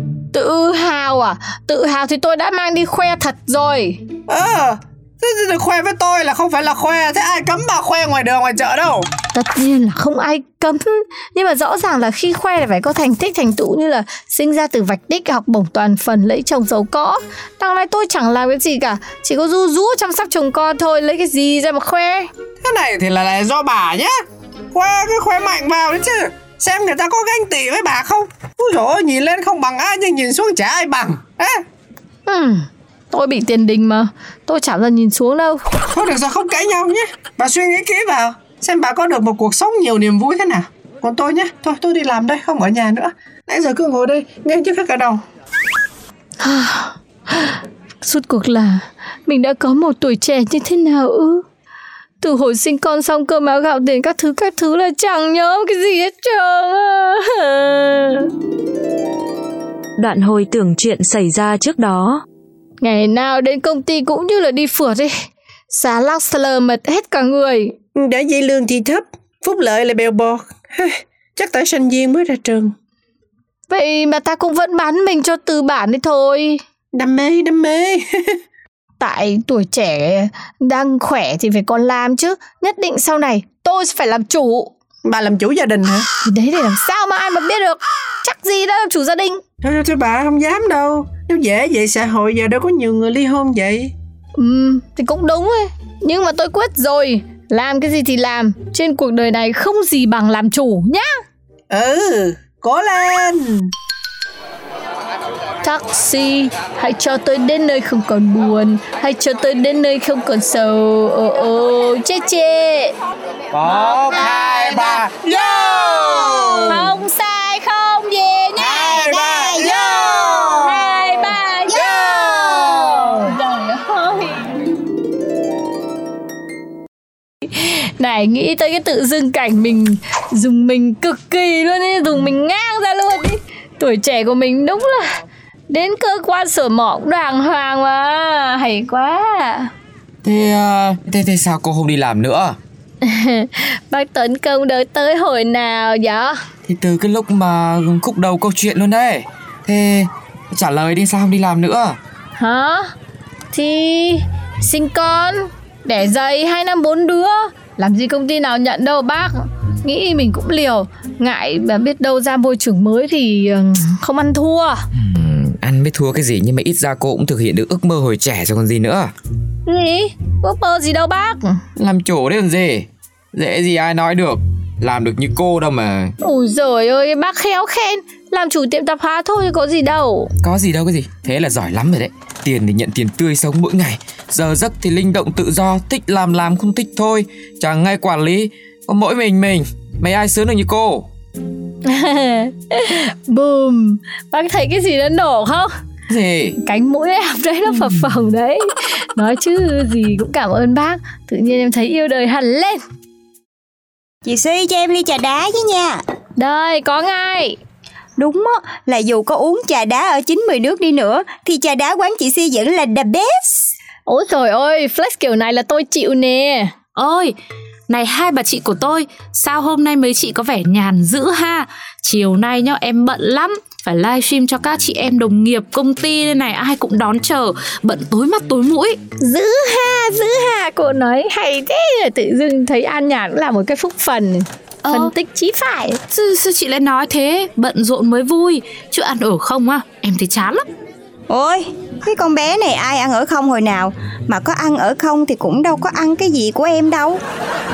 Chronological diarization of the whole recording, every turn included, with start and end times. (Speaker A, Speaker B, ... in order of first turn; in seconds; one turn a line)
Speaker A: 0.3-4.0
Speaker B: 4.3-9.1
Speaker A: 9.3-22.3
Speaker B: 22.6-24.2
Speaker B: 24.7-31.6
Speaker A: 32.3-35.6
Speaker B: 35.9-45.2
Speaker A: 46.4-51.4
Speaker A: 52.2-58.3
Speaker C: 60.0-62.2
Speaker A: 62.8-65.1
Speaker A: 65.7-67.7
Speaker B: 68.0-72.7
Speaker A: 73.7-76.6
Speaker B: 76.9-78.4
Speaker A: 79.0-84.7
Speaker B: 85.0-86.1
Speaker A: 86.2-89.4
Speaker B: 89.6-93.9
Speaker A: 94.4-101.2
Speaker B: 101.7-103.7
Speaker A: 105.6-112.9
Speaker B: 113.5-115.2
Speaker A: 114.1-114.5
Speaker D: 114.1-116.8
Speaker B: 115.7-116.7
Speaker A: 116.7-119.0
Speaker B: 118.6-120.6
Speaker D: 118.7-121.0
Speaker A: 120.6-124.6
Speaker D: 121.7-123.1
Speaker A: 127.5-135.2
Speaker A: 135.7-139.7
Speaker E: 140.2-142.6
Speaker A: 143.0-146.4
Speaker E: 146.7-152.0
Speaker A: 152.4-152.9
Speaker A: 153.5-164.8
Speaker E: 164.9-169.1
Speaker A: 169.7-171.6
Speaker E: 171.8-176.1
Speaker A: 176.2-180.3
Speaker E: 180.4-191.1
Speaker A: 191.8-195.7
Speaker E: 196.1-196.6
Speaker A: 196.6-202.8
Speaker D: 204.2-206.0
Speaker A: 206.4-207.6
Speaker D: 208.2-213.7
Speaker A: 214.1-216.7
Speaker F: 217.0-217.3
Speaker F: 217.9-229.0
Speaker A: 229.2-236.0
Speaker F: 234.8-235.1
Speaker F: 236.1-240.7
Speaker D: 241.3-247.2